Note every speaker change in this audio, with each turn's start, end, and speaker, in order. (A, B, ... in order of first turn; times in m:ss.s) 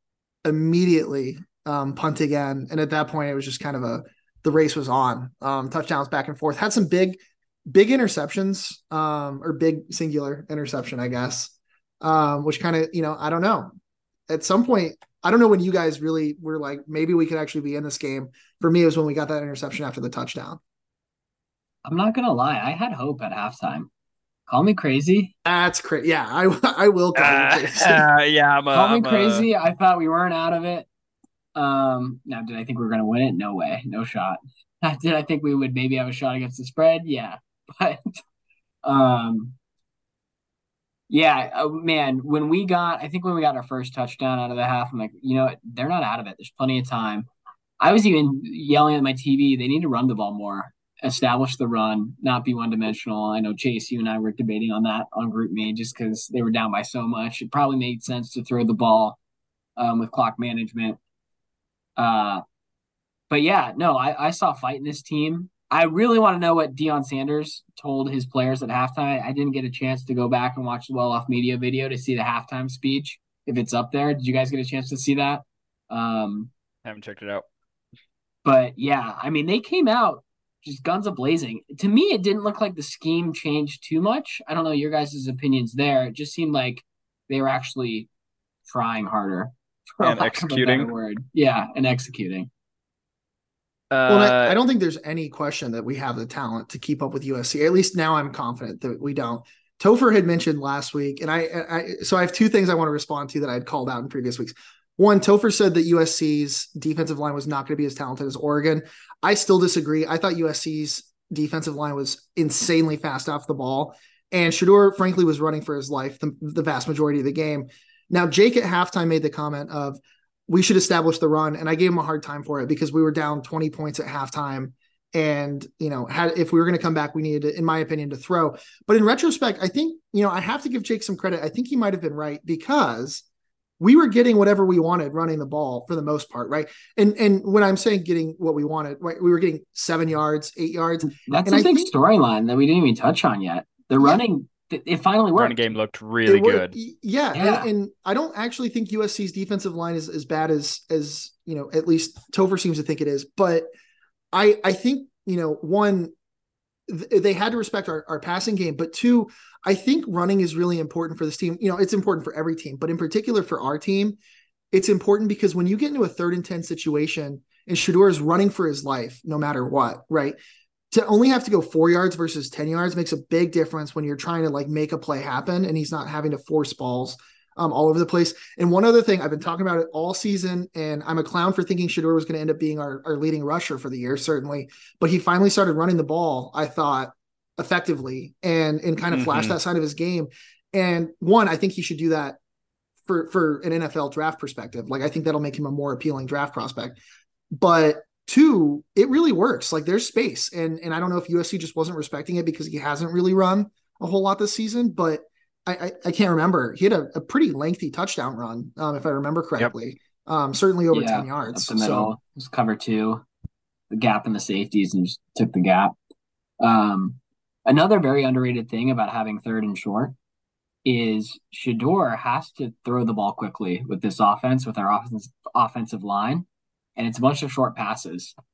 0:00.4-0:13.7 A
0:14.3-0:20.6 A
0:21.8-0:23.9 B
0:24.5-0:25.3 B
0:25.4-0:28.1 A
0:27.1-0:29.5 C
0:28.7-0:30.9 B
0:31.6-0:38.2 B
0:38.8-0:39.6 B
0:41.1-0:47.3 B
0:47.8-0:59.2 B
0:59.8-1:01.0 B
1:02.0-1:02.4 B
1:03.3-1:16.5 B
1:16.8-1:17.4 C
1:18.4-1:28.1 B
1:28.6-1:32.5 B
1:30.0-1:30.9 C
1:33.9-1:34.6 C
1:34.1-2:13.2 A
2:13.8-2:21.9 A
2:21.2-2:25.6 B
2:25.3-2:26.8 C
2:26.2-2:33.7 A
2:27.3-2:27.7 B
2:34.3-2:36.1 A
2:36.9-2:44.2 A
2:44.7-2:50.4 A
2:50.9-3:12.4 A
3:09.1-3:09.6 C
3:13.1-3:17.0 A
3:17.6-3:32.1 A
3:30.9-3:33.2 B
3:33.9-3:35.9 B
3:36.6-3:40.2 B
3:40.8-3:46.4 B
3:47.0-3:48.3 B